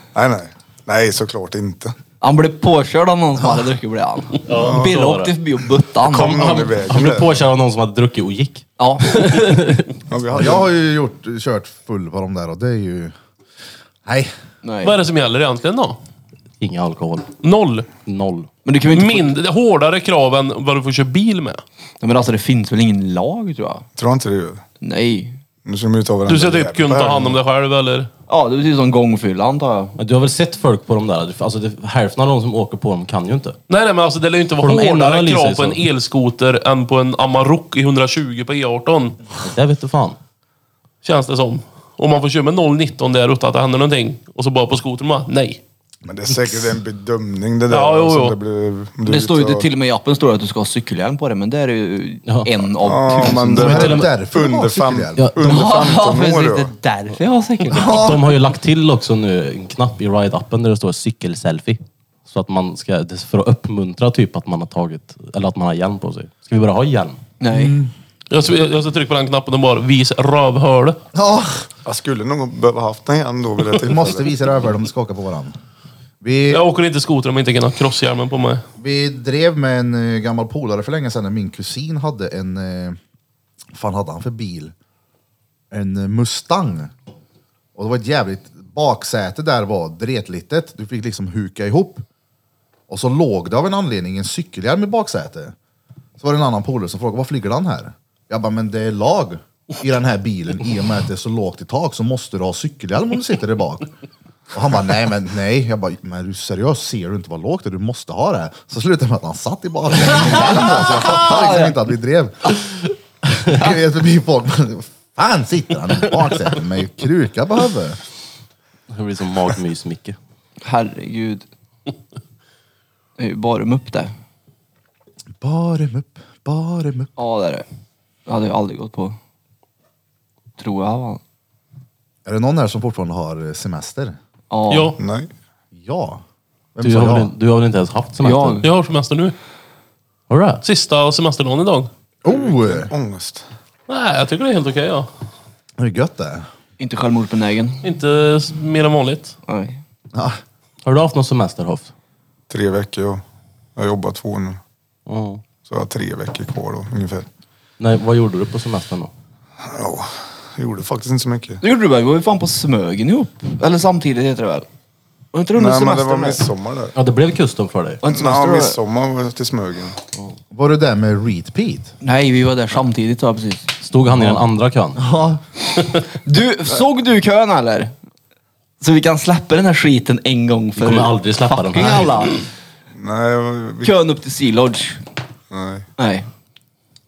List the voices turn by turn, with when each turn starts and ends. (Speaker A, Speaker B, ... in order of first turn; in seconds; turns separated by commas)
Speaker A: 0.1-1.9, Speaker B: 2.2-6.4, Speaker C: 4.5-5.3, Speaker A: 4.5-4.9, Speaker A: 6.1-7.4, Speaker C: 6.1-9.9, Speaker B: 8.8-9.4, Speaker A: 10.1-10.7, Speaker D: 10.3-13.1, Speaker D: 14.1-14.3, Speaker B: 14.6-14.9, Speaker E: 14.8-16.0, Speaker C: 16.6-17.3, Speaker E: 17.4-17.9, Speaker C: 18.0-18.5, Speaker B: 18.6-19.3, Speaker E: 18.9-21.6, Speaker B: 22.0-23.9, Speaker A: 23.9-24.6, Speaker B: 24.8-25.4, Speaker A: 25.6-27.4, Speaker E: 26.2-28.1, Speaker B: 28.3-29.9, Speaker C: 30.0-33.6, Speaker E: 33.7-39.2, Speaker C: 34.6-35.8, Speaker C: 39.4-40.2, Speaker E: 41.0-45.6, Speaker D: 46.0-46.7, Speaker A: 46.1-49.7, Speaker E: 47.7-48.4, Speaker B: 49.0-54.0, Speaker A: 52.8-56.7, Speaker D: 53.5-55.2, Speaker C: 55.1-55.7, Speaker B: 55.4-58.1, Speaker D: 57.7-58.3, Speaker C: 57.9-67.2, Speaker B: 67.4-67.8, Speaker D: 67.5-67.9, Speaker E: 68.3-71.0, Speaker D: 71.1-71.7, Speaker A: 71.8-74.3, Speaker D: 73.8-75.5, Speaker D: 76.2-76.6, Speaker E: 76.5-78.6, Speaker D: 78.8-83.0, Speaker D: 83.7-84.7, Speaker D: 85.7-86.9, Speaker D: 87.8-92.0, Speaker D: 92.9-95.5, Speaker D: 96.2-103.9, Speaker D: 104.5-112.5, Speaker B: 110.0-111.8, Speaker D: 113.5-118.0, Speaker C: 118.9-120.2, Speaker B: 120.6-121.5, Speaker B: 123.2-124.1, Speaker D: 125.4-127.1, Speaker B: 127.2-127.6, Speaker B: 128.3-129.2, Speaker B: 130.6-131.2, Speaker D: 132.2-134.2, Speaker B: 134.5-134.9, Speaker E: 134.7-135.0, Speaker A: 135.0-135.3, Speaker D: 135.7-136.2, Speaker D: 136.7-137.3, Speaker C: 136.8-138.6, Speaker B: 138.2-138.7, Speaker E: 138.6-139.3, Speaker C: 140.3-140.6, Speaker E: 140.6-141.9, Speaker D: 142.2-142.9, Speaker A: 142.3-143.4, Speaker E: 143.9-145.1, Speaker D: 145.8-146.4, Speaker B: 146.8-147.8, Speaker E: 147.8-149.3, Speaker B: 149.5-149.8, Speaker D: 150.1-150.4, Speaker C: 150.8-151.9, Speaker A: 152.5-153.2, Speaker A: 153.8-154.6, Speaker C: 155.1-155.4, Speaker A: 155.7-157.3, Speaker C: 157.8-159.1, Speaker A: 159.6-161.6, Speaker B: 161.6-164.7, Speaker B: 165.3-166.4, Speaker A: 165.6-166.9, Speaker C: 166.9-168.0, Speaker B: 168.0-168.8, Speaker A: 168.1-170.0, Speaker D: 170.5-171.9, Speaker B: 172.0-173.8, Speaker C: 173.8-175.0, Speaker D: 174.9-175.4, Speaker B: 176.2-177.9, Speaker B: 178.8-182.4, Speaker C: 180.8-182.3, Speaker A: 182.9-183.9, Speaker B: 183.8-185.0, Speaker A: 185.5-185.9, Speaker B: 186.0-186.3